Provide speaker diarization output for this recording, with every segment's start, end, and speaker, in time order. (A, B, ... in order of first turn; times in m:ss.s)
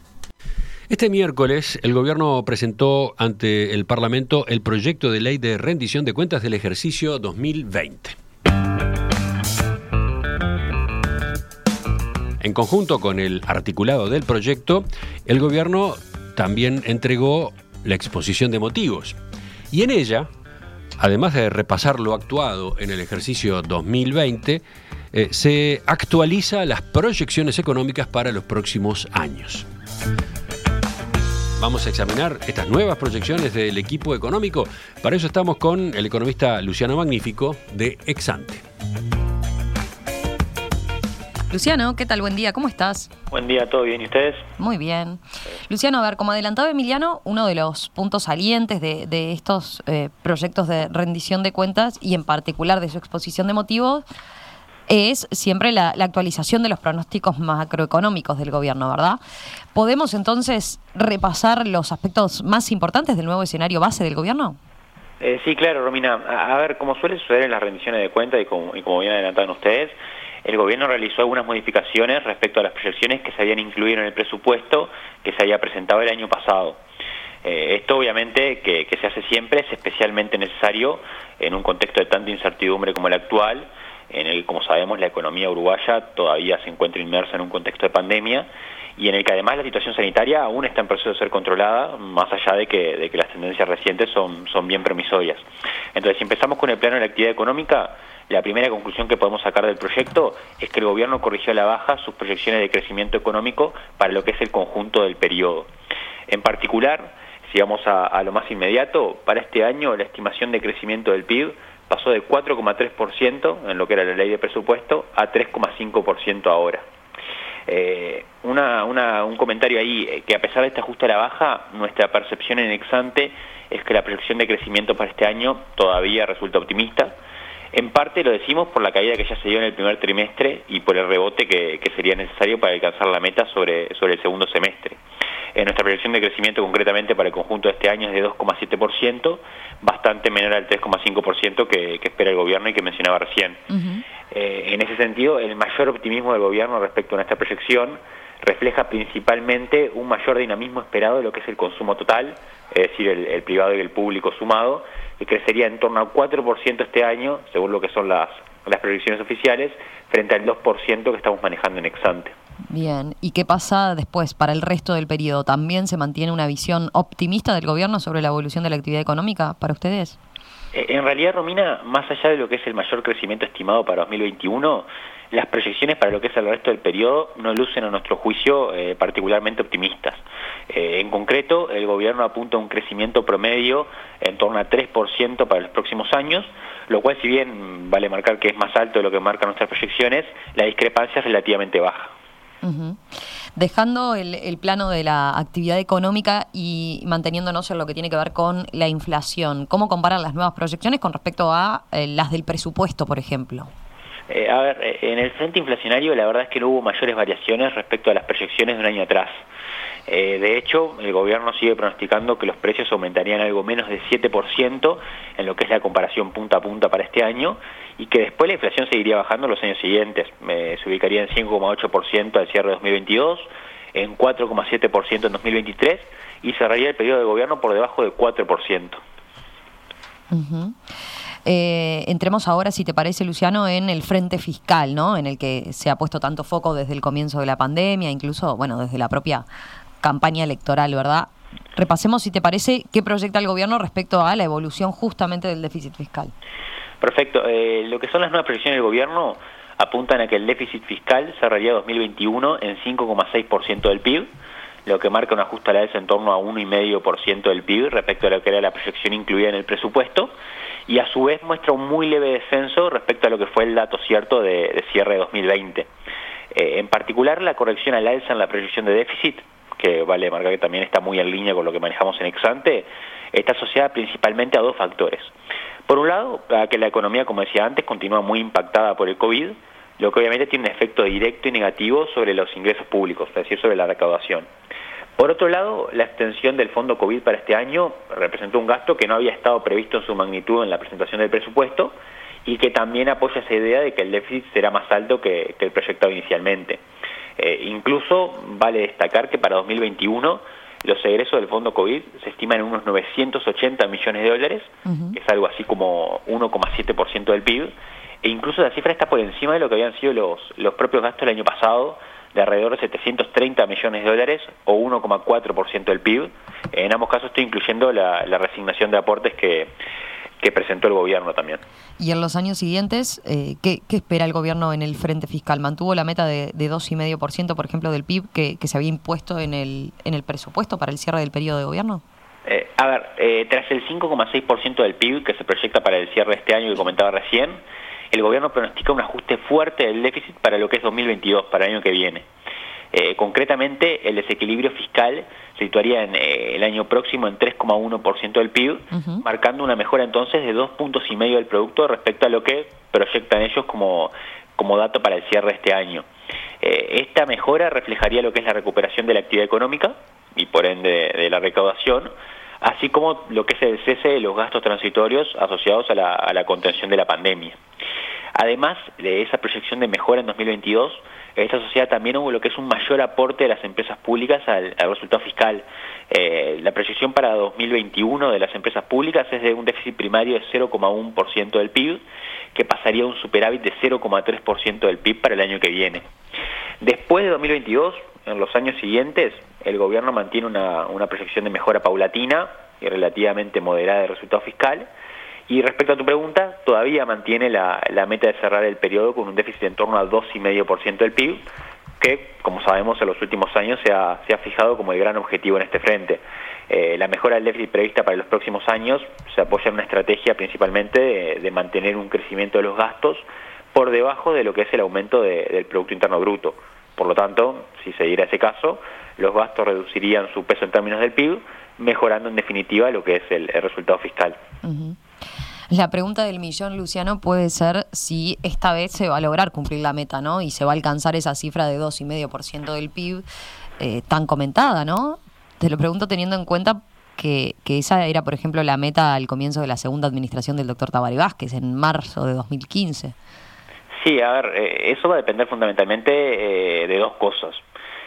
0:00.9-0:08.2 A
0:12.4-0:19.2 A
0:19.7-0:20.3 A
0:21.0-0:29.7 A
0:31.6-0:38.6 A
0:41.5-0:43.1 B
0:43.3-0:44.5 C
0:44.6-0:54.0 B
0:54.9-0:59.2 B
0:59.7-1:04.6 B
1:05.2-1:16.8 C
1:17.4-1:35.4 C
1:36.0-1:45.7 C
1:46.3-1:56.8 C
1:57.7-2:07.2 C
2:07.7-2:15.0 C
2:15.6-2:23.6 C
2:24.3-2:42.3 C
2:42.7-2:50.2 B
2:50.7-3:12.1 C
3:12.6-3:13.0 B
3:13.6-3:23.7 B
3:24.3-3:29.4 C
3:30.1-3:49.0 C
3:50.3-3:50.7 B
3:51.5-3:59.4 B
4:00.0-4:06.3 B
4:07.0-4:14.3 C
4:14.9-4:20.3 C
4:20.9-4:25.9 C
4:26.5-4:35.3 C
4:35.9-4:44.5 C
4:45.2-4:56.8 C
4:57.4-5:19.8 C
5:04.9-5:05.1 B
5:20.4-5:21.6 C
5:22.0-5:32.0 B
5:32.5-5:42.3 C
5:42.9-5:56.1 C
5:56.6-6:07.6 C
6:08.4-6:22.0 C
6:22.5-6:26.1 C
6:26.8-6:34.9 C
6:35.5-6:41.4 C
6:42.0-7:04.4 C
7:04.6-7:04.9 B
7:05.7-7:13.2 B
7:13.8-7:23.1 B
7:24.0-7:27.6 C